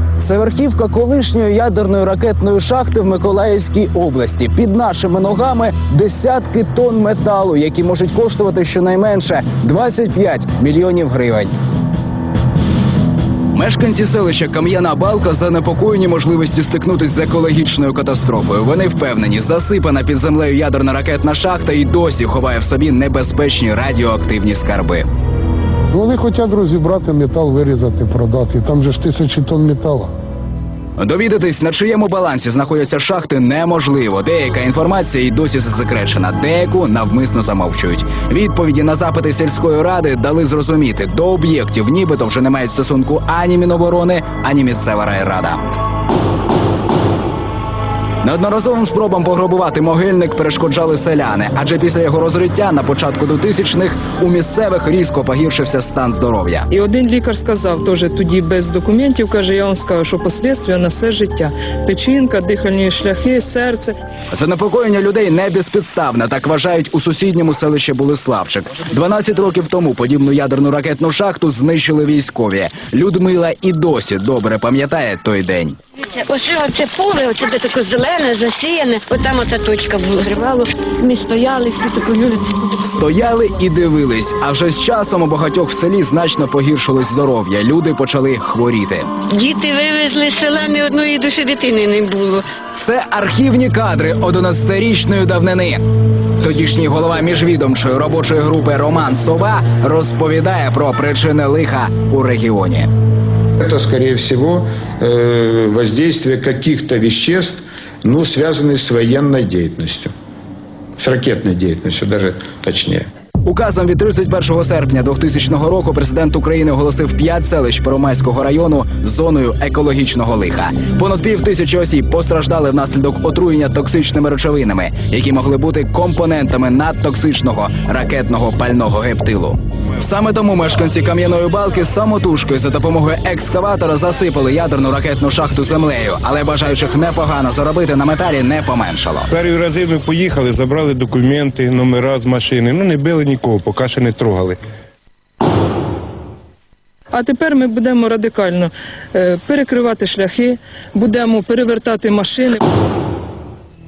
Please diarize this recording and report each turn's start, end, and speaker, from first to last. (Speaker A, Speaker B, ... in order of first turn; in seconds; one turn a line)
Speaker A: 0.2-11.5
Speaker A: 13.5-25.1
Speaker B: 25.9-30.1
Speaker A: 31.0-45.6
Speaker A: 48.2-56.7
Speaker C: 56.7-63.9
Speaker A: 64.3-75.8
Speaker D: 76.1-82.6
Speaker A: 82.8-89.1
Speaker D: 89.3-92.5
Speaker A: 92.7-95.8
Speaker A: 96.4-102.9
Speaker E: 103.8-110.1
Speaker E: 111.0-113.0
Speaker A: 113.4-139.3
Speaker F: 139.3-144.6
Speaker C: 147.1-152.6